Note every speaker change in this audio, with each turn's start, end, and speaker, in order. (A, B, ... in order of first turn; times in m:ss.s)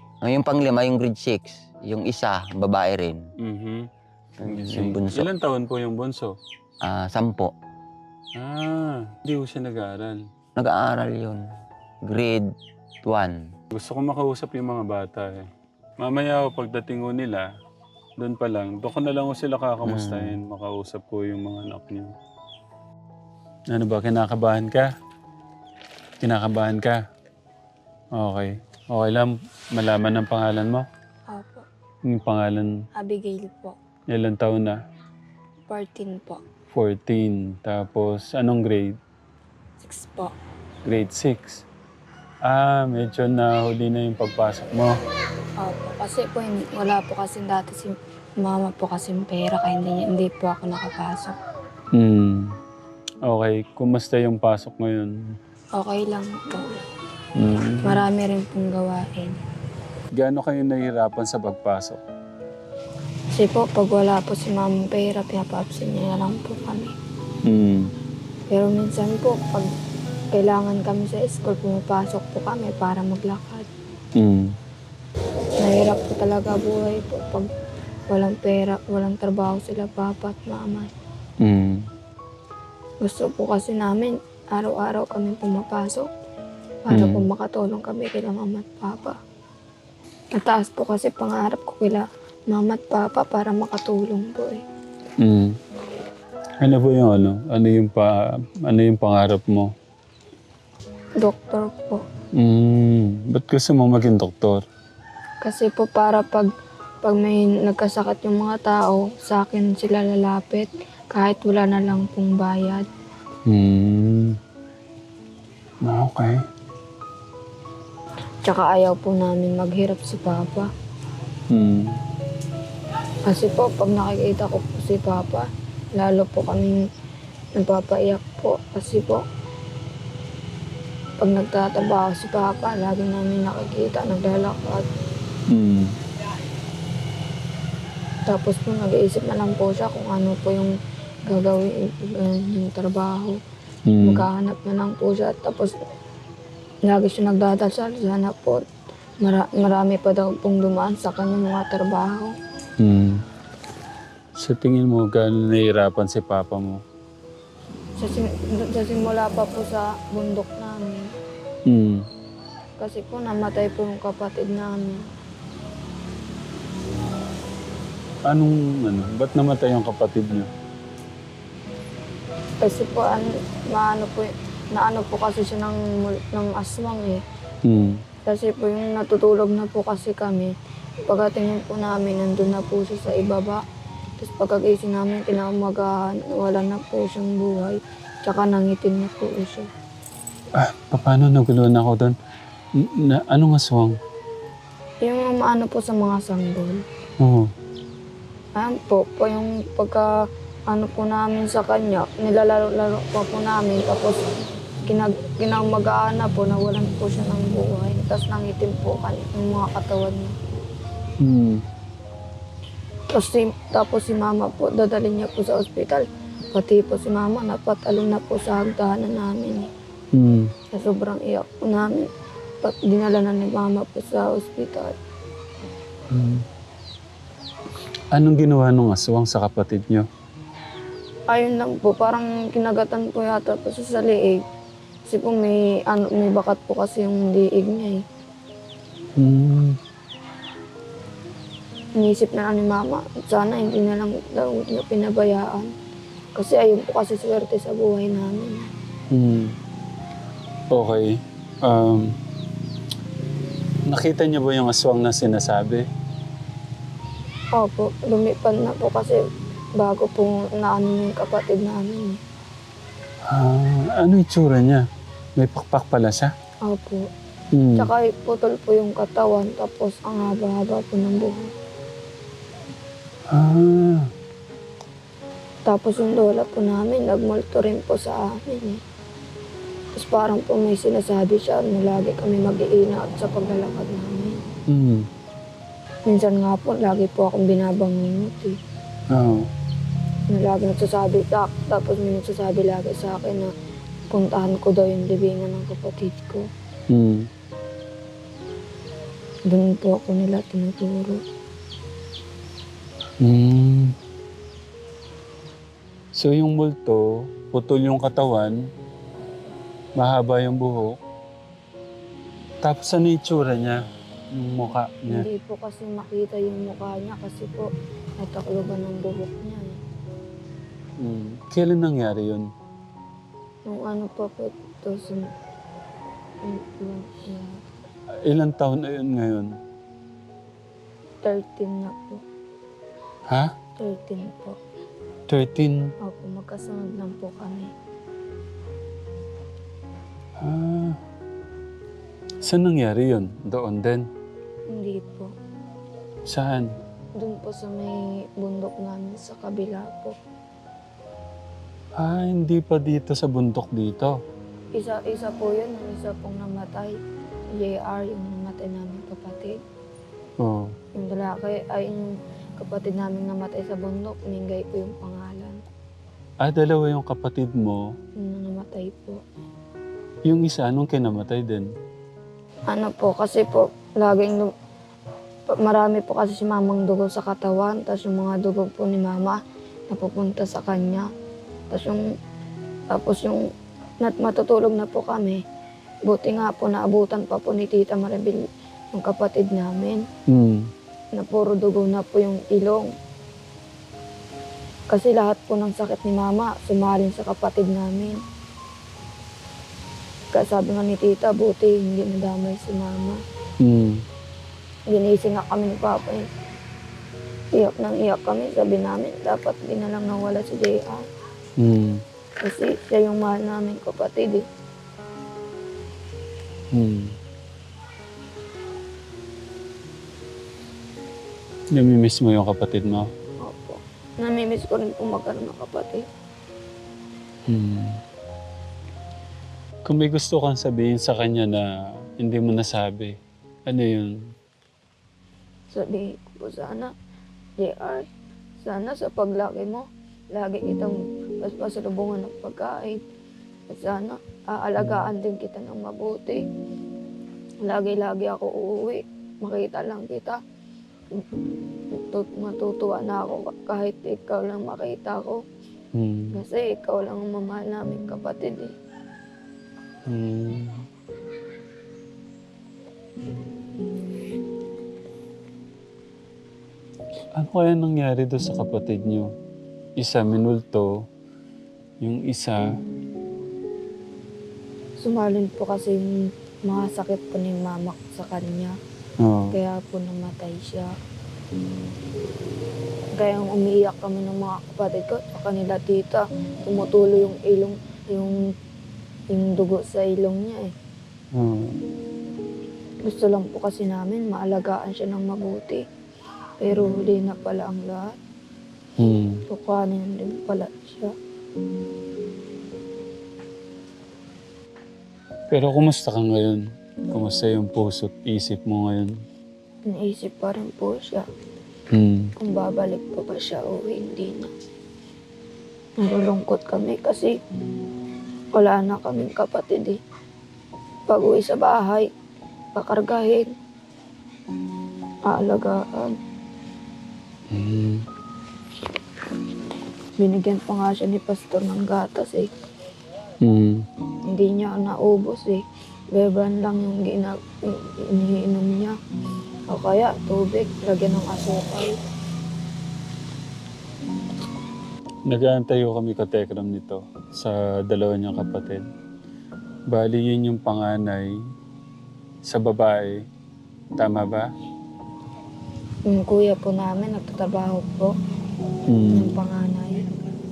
0:00.2-0:03.2 A
0:03.4-0:03.9 B
0:04.4-0:05.3 A
0:04.4-0:06.4 B
0:06.8-0:07.5 A
0:08.4-0:10.2 B
0:10.6-0:11.4 A
0:12.1-0:12.5 A
0:13.0-0:13.4 A
0:13.7-0:15.5 B
0:16.0-0:17.5 B
0:18.2-0:22.1 B
0:19.9-0:20.4 A
0:23.7-0:24.9 B
0:26.2-0:27.0 B
0:28.2-0:30.8 B
0:31.3-0:31.7 C
0:32.1-0:32.7 B
0:33.0-0:33.8 C
0:34.1-0:34.8 B
0:35.7-0:36.4 C
0:36.7-0:39.0 B
0:39.8-0:40.3 C
0:40.8-0:41.6 B
0:42.4-0:45.0 B
0:45.6-0:51.4 C
0:52.0-0:52.6 B
0:53.3-0:55.2 B
0:55.8-0:56.8 C
0:57.4-0:58.0 B
0:57.8-0:59.4 C
1:00.2-1:02.0 B
1:03.4-1:06.9 C
1:07.5-1:07.9 B
1:08.5-1:09.7 C
1:10.3-1:13.7 C
1:14.2-1:14.5 B
1:15.6-1:17.5 C
1:18.1-1:20.9 C
1:21.4-1:21.8 B
1:23.0-1:26.1 C
1:26.9-1:29.2 C
1:26.9-1:27.2 B
1:30.3-1:34.6 C
1:35.2-1:35.6 B
1:36.6-1:39.7 B
1:41.2-1:42.0 C
1:42.4-1:44.6 B
1:45.4-1:46.5 C
1:47.0-1:52.9 C
1:53.5-1:54.4 B
1:55.8-1:56.4 B
1:58.4-2:00.7 C
2:01.5-2:02.0 B
2:03.3-2:06.8 C
2:07.6-2:09.2 C
2:11.2-2:14.8 C
2:15.5-2:15.9 B
2:18.3-2:20.7 C
2:21.3-2:23.4 C
2:23.9-2:24.3 B
2:24.0-2:25.7 C
2:26.8-2:28.6 C
2:29.2-2:32.3 C
2:32.8-2:33.2 B
2:34.4-2:36.8 B
2:38.0-2:41.1 C
2:41.7-2:42.1 B
2:42.8-2:45.0 C
2:48.3-2:50.5 B
2:52.6-2:57.2 C
2:57.7-2:58.0 B
2:58.3-3:00.5 C
3:01.1-3:03.6 C
3:04.2-3:09.7 C
3:10.6-3:12.2 B
3:12.8-3:14.0 B
3:15.0-3:16.8 C
3:17.2-3:17.5 B
3:18.6-3:20.1 C
3:20.7-3:24.2 C
3:24.9-3:30.4 C
3:31.2-3:31.6 B
3:33.1-3:39.7 C
3:40.2-3:40.5 B
3:40.7-3:42.0 C
3:42.6-3:45.0 C
3:46.1-3:46.4 B
3:48.1-3:50.1 B
3:51.3-3:54.4 C
3:55.1-3:58.0 C
3:59.2-3:59.8 B
4:02.0-4:05.7 C
4:06.4-4:08.7 C
4:09.1-4:09.6 B
4:10.7-4:12.2 B
4:13.9-4:15.8 B
4:17.6-4:19.2 C
4:19.8-4:22.2 C
4:23.3-4:24.8 B
4:25.4-4:26.3 B
4:26.7-4:27.1 C
4:27.6-4:27.9 B
4:27.8-4:31.5 C
4:33.3-4:34.1 B
4:35.7-4:38.8 C
4:40.0-4:44.4 C
4:44.7-4:45.1 B
4:46.1-4:48.6 C
4:49.1-4:49.5 B
4:50.3-4:53.5 C
4:54.1-4:56.5 C
4:56.9-4:57.3 B
4:59.5-5:01.2 C
5:03.2-5:04.0 B
5:06.2-5:08.6 B
5:10.0-5:11.0 B
5:12.6-5:13.8 B
5:14.3-5:15.3 B
5:15.1-5:17.7 C
5:18.2-5:19.8 C
5:21.0-5:22.5 B
5:23.7-5:25.3 C
5:26.4-5:27.6 C
5:28.3-5:29.5 B
5:31.2-5:32.2 C
5:33.8-5:34.6 C
5:35.3-5:35.9 B
5:36.0-5:37.7 C
5:40.4-5:41.0 B
5:42.4-5:44.1 B
5:44.7-5:45.3 C
5:46.3-5:46.7 B
5:47.2-5:50.2 C
5:52.0-5:54.2 B
5:54.8-5:57.0 C
5:57.6-5:59.6 C
6:00.4-6:00.7 B
6:01.0-6:05.6 C
6:06.4-6:07.9 B
6:08.2-6:09.2 C
6:10.3-6:11.7 B
6:12.7-6:14.5 C
6:15.5-6:19.4 C
6:19.9-6:21.1 C
6:21.7-6:22.1 C
6:22.9-6:23.5 C
6:24.0-6:25.4 C
6:26.1-6:30.1 C
6:30.3-6:30.7 B
6:31.1-6:32.9 C
6:34.9-6:38.2 C
6:40.3-6:43.2 C
6:43.6-6:44.0 B
6:44.9-6:46.3 C
6:47.6-6:51.0 C
6:51.6-6:52.0 B
6:52.4-6:54.4 C
6:56.7-6:57.2 B
7:01.7-7:03.1 B
7:03.4-7:06.1 C
7:07.5-7:08.0 B
7:09.9-7:13.2 B
7:13.7-7:14.3 B
7:15.7-7:16.9 C
7:17.6-7:18.1 C
7:18.6-7:23.0 C
7:23.7-7:26.4 C
7:27.6-7:30.4 C
7:31.9-7:35.4 C
7:36.0-7:36.4 B
7:36.3-7:38.7 C
7:40.1-7:40.8 B
7:47.4-7:49.3 B
7:50.0-7:51.0 B
7:52.0-7:52.6 B
7:55.0-7:58.8 C
7:59.2-7:59.6 B
7:59.5-8:01.0 C
8:03.2-8:08.5 C
8:09.3-8:10.7 C
8:11.4-8:11.7 B
8:13.1-8:15.8 C
8:16.6-8:18.2 C
8:19.0-8:19.4 B
8:19.5-8:21.1 C
8:25.5-8:29.1 B
8:29.9-8:31.3 C
8:31.9-8:32.3 B
8:32.4-8:34.5 C
8:36.0-8:37.3 C
8:38.6-8:40.0 C
8:41.1-8:42.1 C
8:42.8-8:43.5 C
8:45.3-8:46.2 C
8:47.5-8:48.0 B
8:50.2-8:52.5 C
8:53.4-8:53.8 B
8:54.3-8:59.0 C
8:59.7-9:02.0 C
9:05.3-9:08.9 B
9:09.9-9:11.3 B
9:12.4-9:13.2 B
9:14.0-9:14.5 B
9:16.1-9:18.1 C
9:18.9-9:19.4 B
9:19.1-9:20.1 C